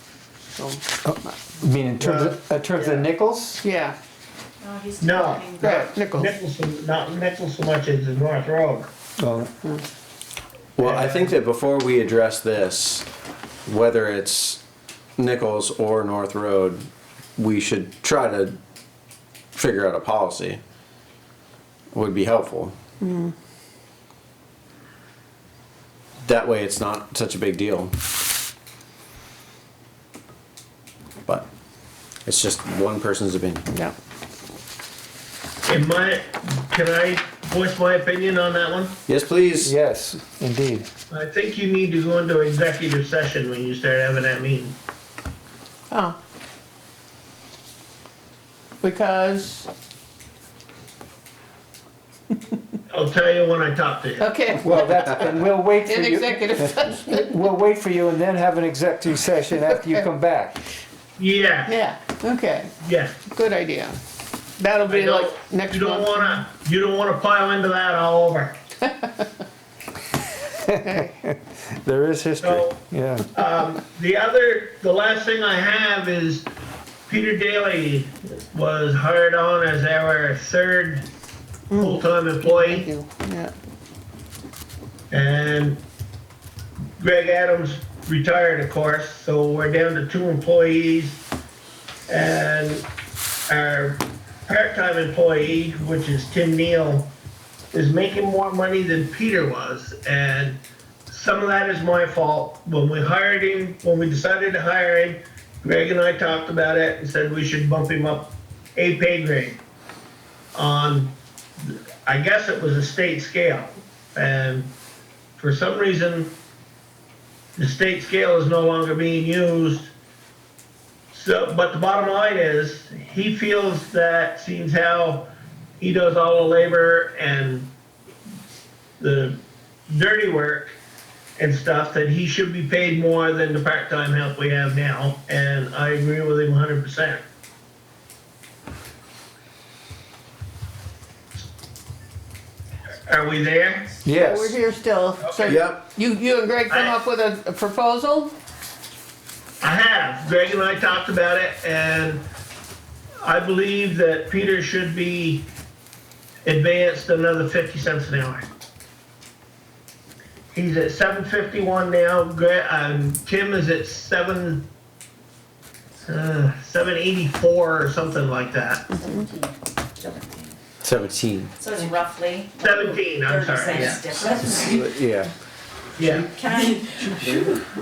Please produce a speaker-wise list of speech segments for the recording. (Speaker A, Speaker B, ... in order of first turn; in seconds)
Speaker A: 0.6-1.4, 3.6-4.0, 5.6-6.3, 23.0-23.3, 45.9-46.2, 48.8-49.7, 54.2-57.3, 59.7-60.0, 61.7-62.7, 63.3-64.0, 64.6-66.5, 70.8-71.2, 81.7-83.5, 144.1-148.3, 176.6-177.4
Speaker B: 1.0-3.6, 9.2-9.5, 39.6-40.9, 54.6-60.6, 70.7-73.3, 144.0-144.6
Speaker C: 2.0-3.1, 5.0-8.9, 10.8-11.4, 35.7-39.0, 41.1-44.8, 52.9-54.3, 61.2-61.8, 62.8-63.2, 64.9-68.6, 72.4-72.8, 73.3-76.5, 77.1-81.1, 81.8-82.9, 85.1-85.8, 87.0-91.2, 92.1-92.9, 93.5-97.1, 97.7-109.6, 110.5-114.7, 115.4-116.4, 117.6-119.9, 121.1-127.7, 129.0-130.8, 131.4-137.2, 143.1-144.0, 145.2-145.7, 146.7-147.0, 149.6-152.2, 153.2-155.5, 156.4-158.5, 160.5-164.7, 166.1-168.9, 172.6-174.0, 176.0-176.3
Speaker D: 4.6-6.1, 168.9-170.4, 171.6-174.9, 176.3-177.1
Speaker E: 10.8-13.1, 13.7-14.6, 15.2-16.9, 17.4-18.6, 19.6-20.6, 21.9-22.8, 26.2-27.9, 32.2-33.6, 39.1-39.7, 145.4-145.8, 170.8-171.5, 174.8-175.3